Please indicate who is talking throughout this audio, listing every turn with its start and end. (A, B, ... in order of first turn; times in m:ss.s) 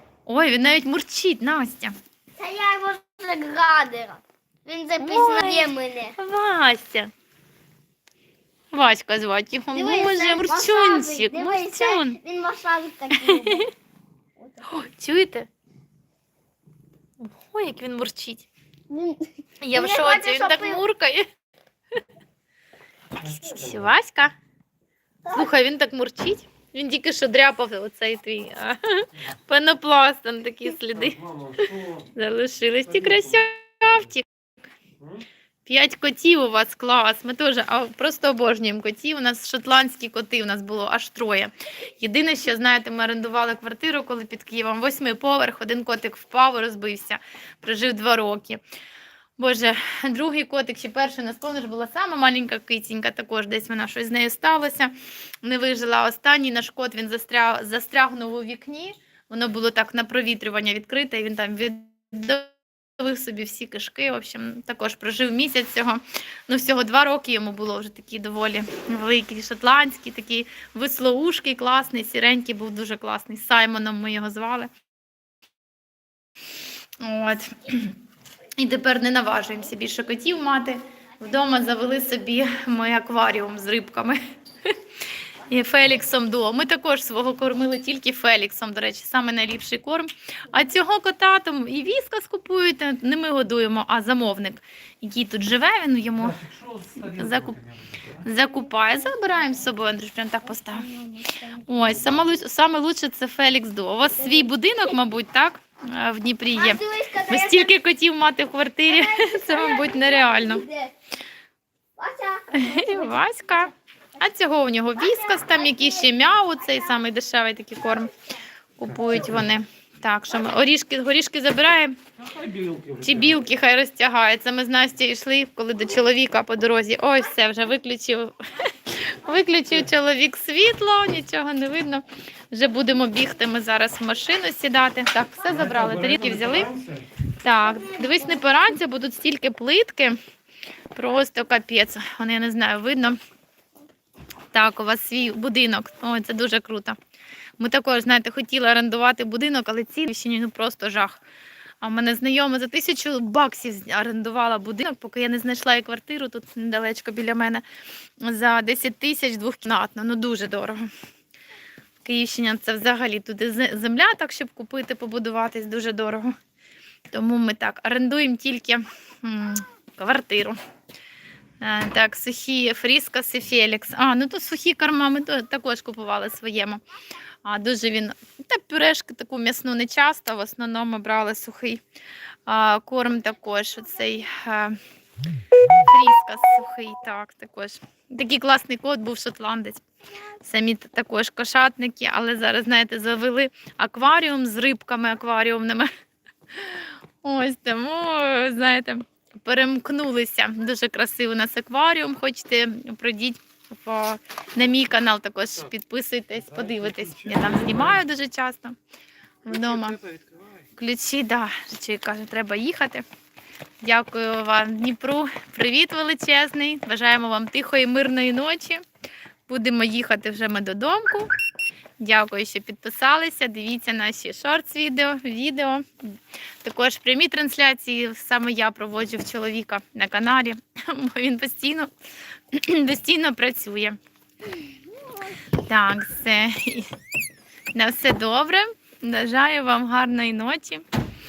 0:00.3-0:02.0 A
0:02.4-0:06.2 B
0:05.0-0:07.1 A
0:08.7-0:12.2 A
0:09.7-0:13.7 B
0:13.1-0:13.7 A
0:14.4-0:14.9 B
0:14.6-0:15.5 A
0:17.2-0:18.5 A
0:18.9-0:20.8 B
0:19.6-0:21.3 A
0:23.2-0:23.8 C
0:23.2-0:24.3 A
0:25.3-0:31.2 A
0:31.0-0:32.1 C
0:32.2-0:34.3 A
0:32.9-0:33.4 C
0:35.0-0:35.3 C
0:35.6-0:48.6 A
0:49.4-1:14.7 A
1:17.0-1:18.0 A
1:18.6-1:24.7 A
1:25.5-1:36.4 A
1:36.2-1:38.2 C
1:37.0-1:37.6 A
1:38.2-1:40.9 A
1:40.5-1:41.9 B
1:41.6-1:50.7 A
1:44.2-1:44.5 B
1:46.6-1:47.7 B
1:48.9-1:50.9 B
1:52.0-1:53.2 B
1:52.5-1:58.1 A
1:55.0-1:56.2 B
1:58.8-2:02.0 A
2:02.2-2:03.4 C
2:03.0-2:16.7 A
2:15.5-2:17.1 C
2:17.3-2:20.2 A
2:18.0-2:18.3 B
2:20.9-2:23.2 A
2:24.5-2:27.0 A
2:27.6-2:31.2 A
2:31.8-2:37.6 A
2:38.2-2:40.8 A
2:42.0-2:46.4 A
2:47.1-2:50.6 A
2:51.6-2:56.8 A
2:57.4-3:01.8 A
3:02.5-3:04.8 A
3:05.7-3:15.9 A
3:16.5-3:28.8 A
3:26.5-3:28.0 C
3:29.4-3:30.0 A
3:29.7-3:30.6 C
3:30.7-3:33.0 A
3:33.8-3:38.8 A
3:39.5-3:41.3 A
3:42.0-3:51.9 A
3:52.5-3:54.0 A
3:55.6-3:56.9 A
3:57.7-4:00.8 A